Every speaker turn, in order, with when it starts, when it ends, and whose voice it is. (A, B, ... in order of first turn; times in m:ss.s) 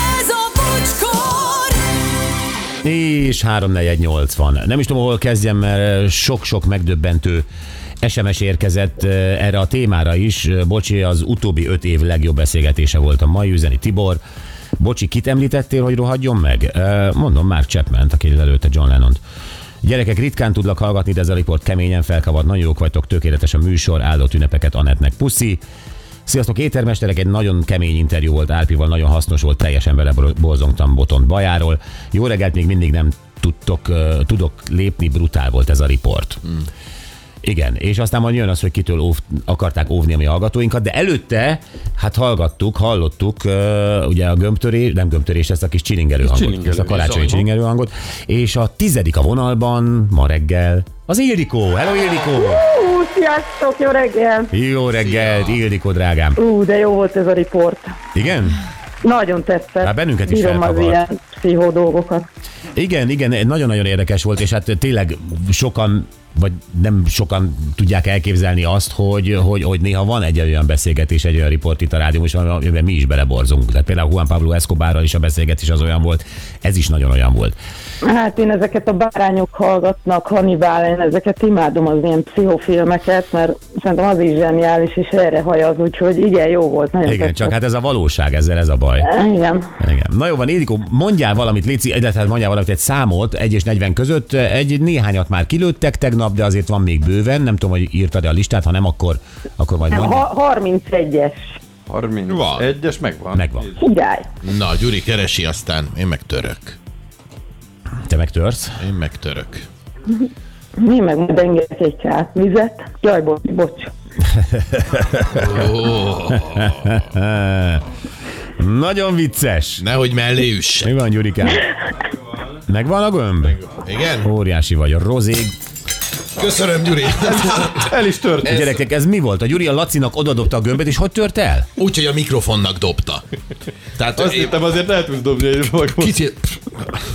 0:02.8-0:07.4 A
0:08.0-0:14.2 A
0:14.8-0:19.2 A
0:19.8-0:25.6 A
0:26.2-0:36.5 A
0:37.4-0:52.6 A
0:46.2-0:47.4 B
0:46.9-0:47.4 C
0:52.3-0:54.5 D
0:54.5-0:56.4 A
0:55.0-0:55.6 C
0:56.4-0:58.0 D
0:58.1-0:58.6 A
0:59.0-1:02.2 D
0:59.8-1:01.0 A
1:02.7-1:17.6 A
1:18.0-1:27.5 D
1:27.0-1:29.1 A
1:29.0-1:29.7 D
1:29.8-1:40.2 A
1:39.9-1:41.5 D
1:41.9-1:43.8 B
1:42.3-1:42.7 C
1:43.3-1:43.7 A
1:43.8-1:44.2 D
1:44.4-1:46.8 C
1:48.0-1:48.8 A
1:48.8-1:49.6 C
1:50.8-1:53.9 D
1:54.6-1:55.5 A
1:55.3-1:56.8 C
1:56.5-1:57.8 A
1:58.6-1:59.8 A
1:59.8-2:00.9 C
2:00.8-2:01.6 A
2:02.6-2:03.7 A
2:03.7-2:04.3 C
2:04.2-2:05.5 A
2:06.4-2:07.8 C
2:07.2-2:08.6 B
2:08.4-2:08.7 C
2:08.4-2:11.7 A
2:11.8-2:13.2 C
2:14.0-2:14.7 C
2:14.1-2:16.2 B
2:16.0-2:16.7 C